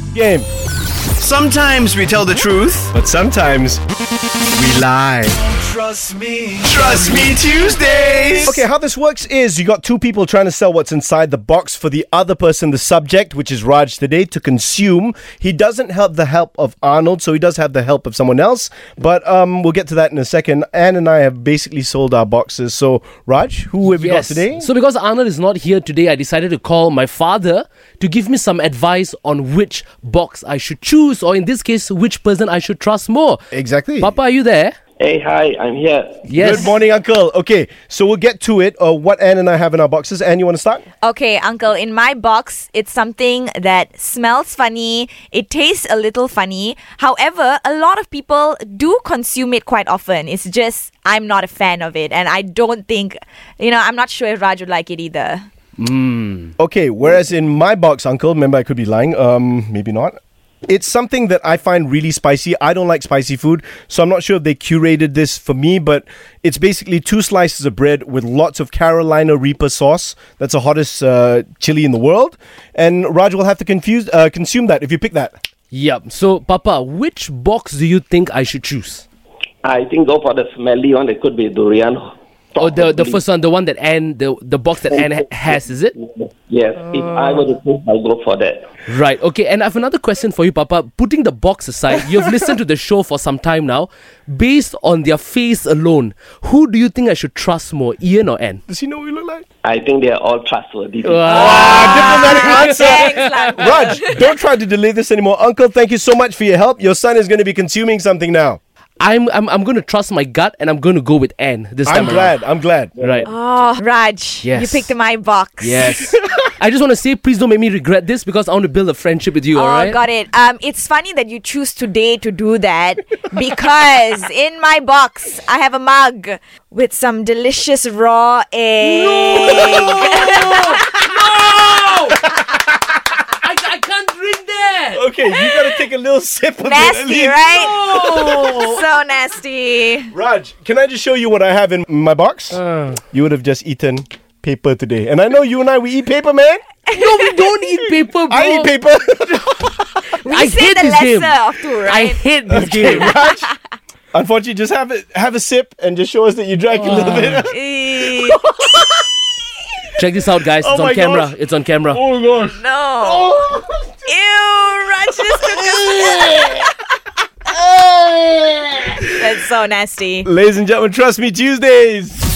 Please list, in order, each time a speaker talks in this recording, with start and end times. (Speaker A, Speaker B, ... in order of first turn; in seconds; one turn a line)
Speaker A: 0.1-0.5
Speaker B: 1.2-2.9
Speaker A: 2.9-3.8
Speaker A: 4.5-5.4
Speaker B: 5.5-8.6
Speaker A: 6.6-24.7
Speaker C: 23.8-33.4
Speaker A: 33.5-34.1
Speaker C: 34.0-34.7
Speaker D: 35.0-36.3
Speaker C: 36.3-36.7
Speaker A: 36.4-40.8
Speaker E: 41.0-55.5
Speaker C: 55.8-56.5
Speaker A: 56.6-75.3
Speaker C: 75.7-79.0
Speaker D: 79.6-83.2
Speaker C: 82.6-86.0
Speaker D: 84.9-88.7
Speaker C: 88.9-98.6
Speaker A: 98.7-99.5
Speaker D: 99.6-102.1
Speaker C: 101.0-103.9
Speaker A: 101.3-108.6
Speaker E: 101.4-104.3
Speaker C: 109.0-112.4
Speaker A: 111.8-112.9
Speaker D: 113.0-113.3
Speaker C: 113.0-113.3
Speaker E: 113.3-116.1
Speaker C: 114.4-115.0
Speaker C: 115.6-120.0
Speaker E: 119.5-131.0
Speaker A: 129.3-130.8
Speaker C: 129.3-132.2
Speaker C: 133.4-135.0
Speaker A: 134.9-138.6
Speaker E: 136.6-140.1
Speaker C: 137.6-138.8
Speaker A: 140.1-146.8
Speaker C: 142.5-143.0
Speaker C: 146.9-148.7
Speaker E: 146.9-147.3
Speaker A: 148.3-150.0
Speaker E: 150.1-152.2
Speaker C: 150.3-153.2
Speaker A: 152.5-153.5
Speaker E: 152.9-153.5
Speaker A: 154.1-158.9
Speaker C: 156.8-157.4
Speaker E: 157.5-158.4
Speaker C: 160.0-162.0
Speaker A: 160.6-161.3
Speaker A: 161.9-163.6
Speaker E: 162.6-163.5
Speaker E: 164.1-166.7
Speaker A: 165.4-166.6
Speaker A: 167.5-169.0
Speaker E: 169.2-170.3
Speaker A: 170.2-172.2